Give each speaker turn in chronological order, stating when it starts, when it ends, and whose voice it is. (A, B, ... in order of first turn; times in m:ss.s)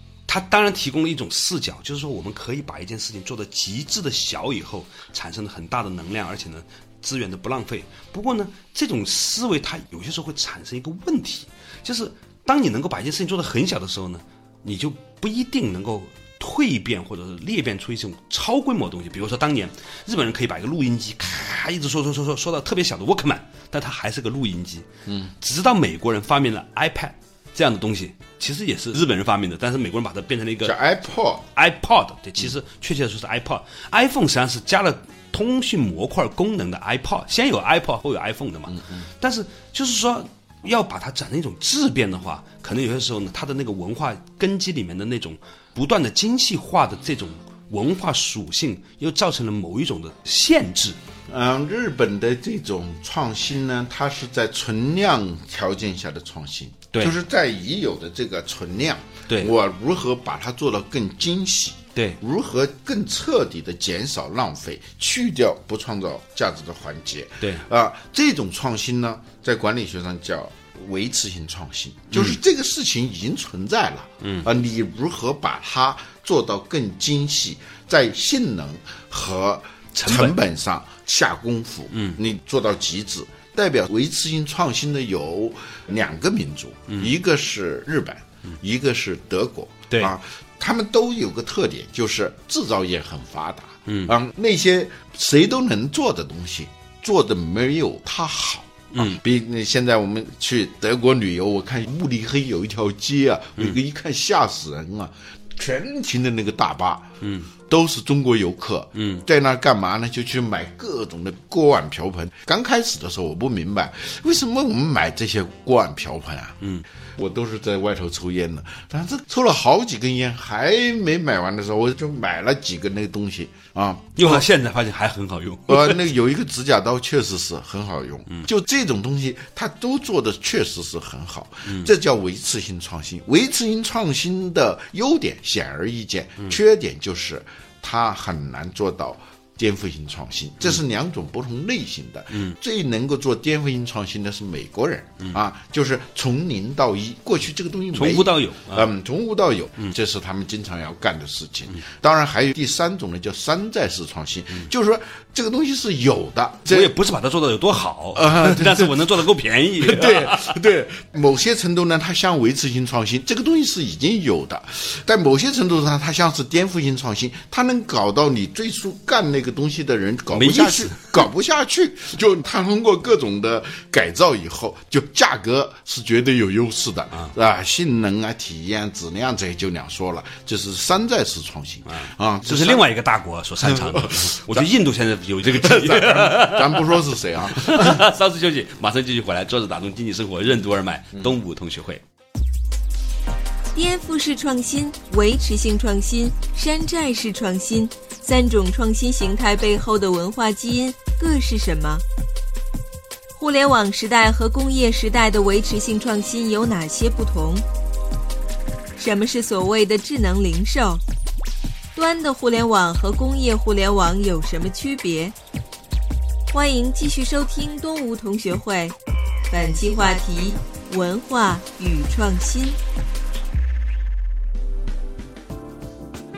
0:00.3-0:24.9 A
0:25.1-0:25.3 B
0:25.4-0:30.8 A
0:30.6-0:31.5 B
0:31.6-0:51.0 A
0:38.7-0:39.0 B
0:51.3-1:47.1 B
0:59.3-0:59.5 A
1:12.1-1:12.4 A
1:14.2-1:14.5 A
1:20.0-1:20.4 A
1:21.9-1:22.2 A
1:33.9-1:34.2 A
1:38.9-1:39.2 A
1:47.2-1:47.5 A
1:47.7-1:56.6 B
1:49.0-1:49.2 A
1:57.2-2:04.4 B
2:04.2-2:06.1 A
2:05.7-2:36.9 B
2:27.9-2:28.9 A
2:36.7-2:40.7 A
2:38.2-2:39.0 B
2:39.8-3:02.9 B
2:50.3-2:51.3 A
3:01.9-3:12.0 A
3:03.6-3:04.7 B
3:05.5-3:08.0 B
3:13.8-3:22.0 C
3:23.4-3:27.6 C
3:29.0-3:31.0 C
3:32.0-3:35.4 C
3:36.5-3:39.0 C
3:39.5-3:42.8 C